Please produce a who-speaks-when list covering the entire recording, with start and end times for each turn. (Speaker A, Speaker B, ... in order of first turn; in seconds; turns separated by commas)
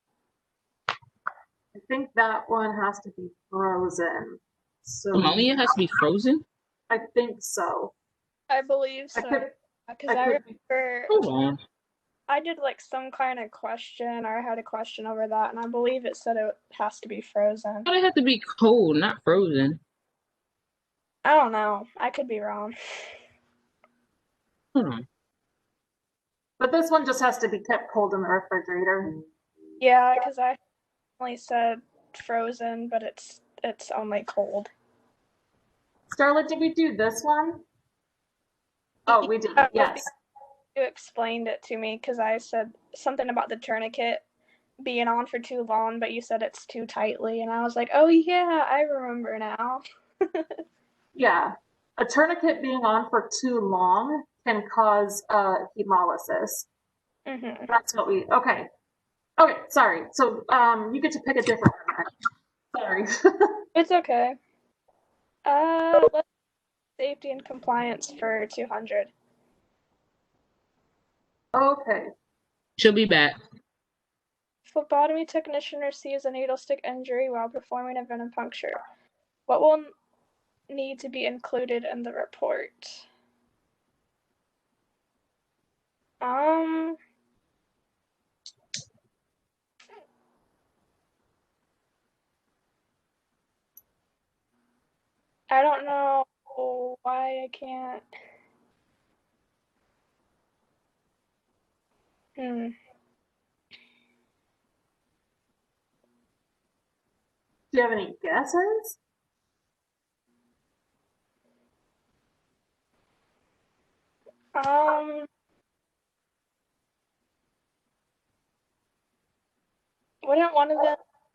Speaker A: 1.8-5.6, Speaker B: 5.1-6.4, Speaker A: 6.9-7.9, Speaker C: 8.5-11.1, Speaker A: 9.2-9.5, Speaker A: 10.1-10.6, Speaker B: 11.1-11.6, Speaker C: 12.3-17.9, Speaker B: 17.9-19.8, Speaker C: 21.2-22.8, Speaker B: 24.8-25.1, Speaker A: 26.6-29.2, Speaker C: 29.8-30.6, Speaker C: 31.2-34.7, Speaker A: 36.1-37.6, Speaker A: 39.1-40.1, Speaker C: 39.1-40.0, Speaker C: 40.8-44.2, Speaker C: 44.8-50.6, Speaker A: 51.1-56.7, Speaker C: 57.3-57.7, Speaker A: 57.7-58.7, Speaker A: 59.4-62.1, Speaker A: 62.7-63.6, Speaker C: 63.8-64.4, Speaker C: 65.5-66.2, Speaker C: 67.0-69.1, Speaker A: 71.5-72.1, Speaker B: 72.8-73.4, Speaker C: 74.7-78.8, Speaker C: 79.5-79.9, Speaker C: 80.7-83.0, Speaker C: 86.2-87.0, Speaker C: 95.5-98.0, Speaker C: 102.4-102.7, Speaker A: 107.7-109.0, Speaker C: 114.6-115.3, Speaker C: 120.2-121.0